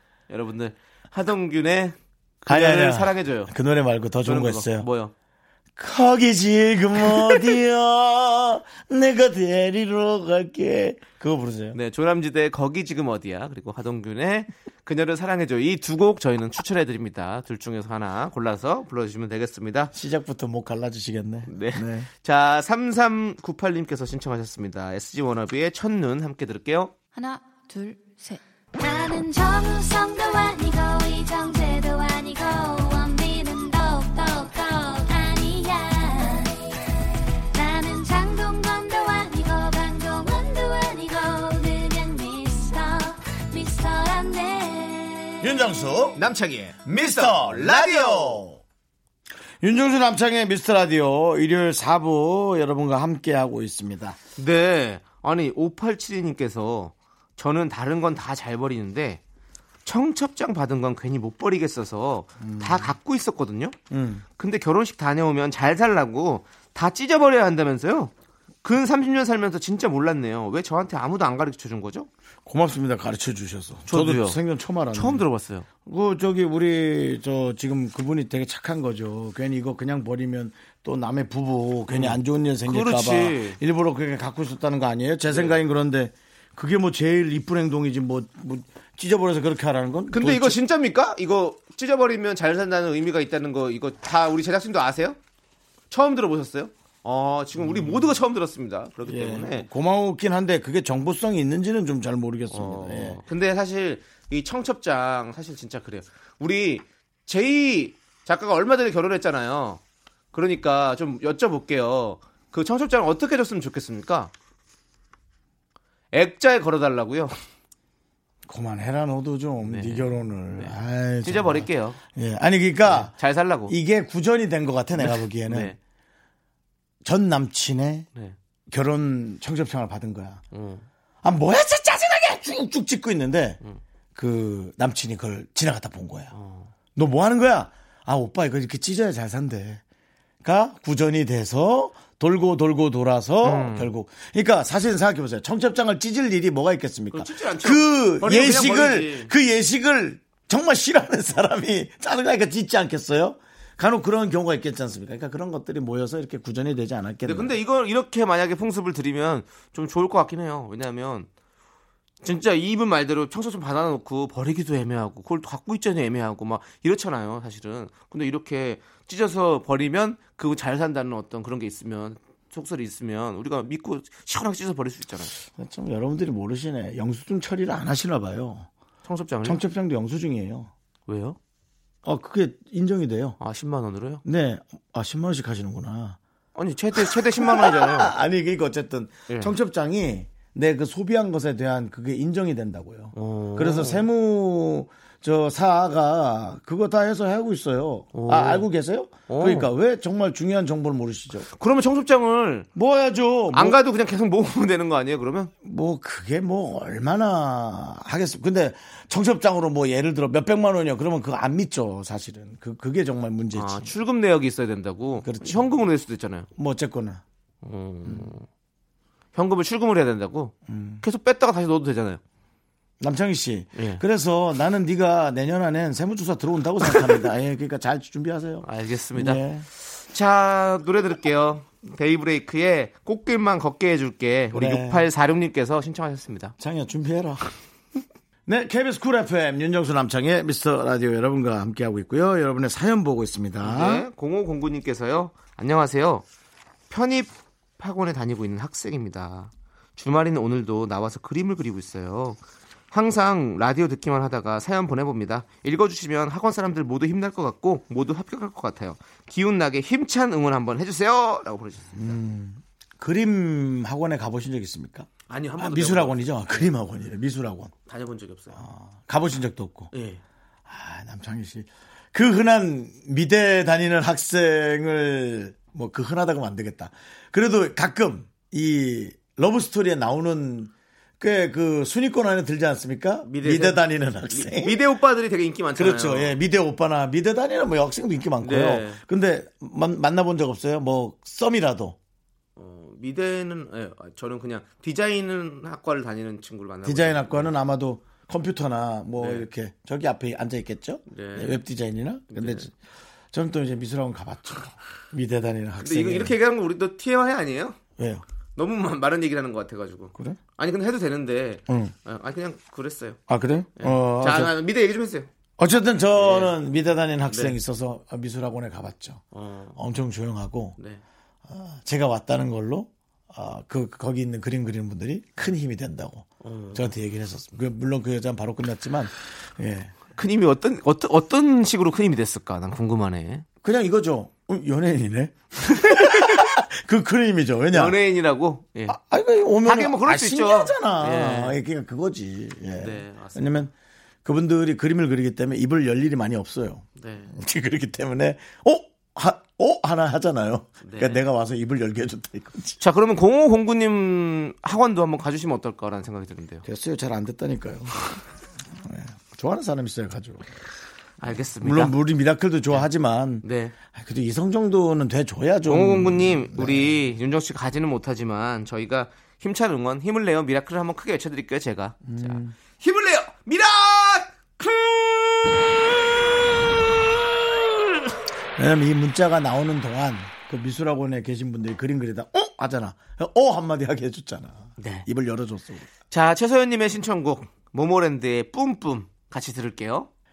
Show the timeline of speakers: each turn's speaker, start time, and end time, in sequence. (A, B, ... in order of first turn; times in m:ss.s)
0:00.3-0:03.5 A
0:02.5-0:04.8 B
0:04.2-0:05.1 A
0:05.8-0:11.8 B
0:11.7-0:19.9 A
0:19.9-0:22.1 B
0:21.4-0:26.9 A
0:28.7-0:36.6 C
0:37.5-0:45.5 C
0:45.4-0:46.2 B
0:46.2-0:48.4 A
0:46.9-0:48.6 B
0:49.6-0:54.2 B
0:54.4-0:59.2 A
0:59.8-1:03.7 A
1:02.4-1:02.9 B
1:03.9-1:04.2 B
1:04.4-1:08.1 A
1:08.6-1:12.1 A
1:12.4-1:15.2 B
1:13.9-1:14.4 A
1:14.9-1:15.7 A
1:15.8-1:30.6 B
1:21.9-1:23.6 A
1:25.3-1:25.6 A
1:30.1-1:35.2 A
1:35.9-1:39.7 A
1:37.6-1:38.2 B
1:39.0-1:43.2 B
1:42.5-1:49.8 A
1:50.3-1:54.3 A
1:56.1-1:57.4 A
1:58.4-2:03.1 B
1:59.6-2:02.0 A
2:02.8-2:03.7 A
2:03.7-2:05.7 B
2:05.0-2:05.8 A
2:07.0-2:08.1 B
2:08.7-2:10.4 B
2:10.5-2:10.8 A
2:11.2-2:13.6 B
2:14.1-2:16.3 B
2:16.3-2:16.7 A
2:17.0-2:19.8 B
2:20.4-2:37.5 B
2:23.4-2:23.9 A
2:27.1-2:29.3 A
2:37.2-2:41.3 A
2:42.2-2:55.3 A
2:55.4-2:58.7 B
2:59.0-2:59.6 A
2:59.4-3:00.7 B
3:01.1-3:01.4 A
3:02.0-3:03.4 B
3:03.4-3:04.2 A
3:04.2-3:06.2 B
3:06.5-3:08.1 A
3:06.9-3:21.5 B
3:09.3-3:09.5 A
3:13.1-3:14.0 A
3:18.1-3:18.6 A
3:19.3-3:19.7 A
3:21.4-3:22.7 A
3:22.7-3:23.8 B
3:23.5-3:25.5 A
3:25.6-3:33.9 B
3:33.5-3:36.5 A
3:35.2-3:35.8 B
3:36.6-3:37.2 B
3:37.6-3:38.5 A
3:39.3-3:42.2 A
3:40.7-3:41.0 B
3:43.0-3:49.7 B
3:43.8-3:44.0 A
3:48.6-3:56.5 A
3:54.5-3:55.1 B
3:56.6-3:57.5 B
3:58.4-4:04.0 B
4:03.6-4:06.2 A
4:06.9-4:12.4 A
4:12.9-4:22.1 A
4:21.9-4:27.7 B
4:25.3-4:26.7 A
4:27.9-4:28.6 A
4:28.5-4:29.9 B
4:29.9-4:30.2 A
4:30.7-4:44.8 B
4:43.2-4:46.4 A
4:45.7-4:52.0 B
4:48.4-4:49.0 A
4:52.6-4:57.6 A
4:56.8-5:02.7 B
4:59.2-4:59.5 A
5:01.1-5:01.6 A
5:02.3-5:02.7 A
5:03.3-5:06.3 B
5:05.8-5:07.8 A
5:08.0-5:08.2 B
5:08.6-5:13.2 A
5:11.7-5:11.9 B
5:13.3-5:14.5 B
5:13.8-5:15.3 A
5:15.6-5:19.2 B
5:16.2-5:16.5 A
5:17.3-5:17.6 A
5:19.3-5:19.8 A
5:19.8-5:20.8 B
5:21.5-5:29.9 B
5:26.4-5:26.9 A
5:30.1-5:33.4 A
5:33.6-5:38.0 B
5:35.6-5:36.5 A
5:37.7-5:39.0 A
5:38.9-5:43.7 B
5:39.6-5:41.6 A
5:42.8-5:43.6 A
5:44.2-5:52.8 B
5:47.0-5:47.3 A
5:50.8-5:51.2 A
5:52.8-5:56.6 A
5:56.6-6:00.4 B
6:01.2-6:02.0 A
6:01.6-6:07.0 B
6:03.4-6:03.7 A
6:05.7-6:15.8 A
6:12.0-6:12.5 B
6:18.6-6:25.9 B
6:24.8-6:25.0 A
6:26.1-6:30.1 A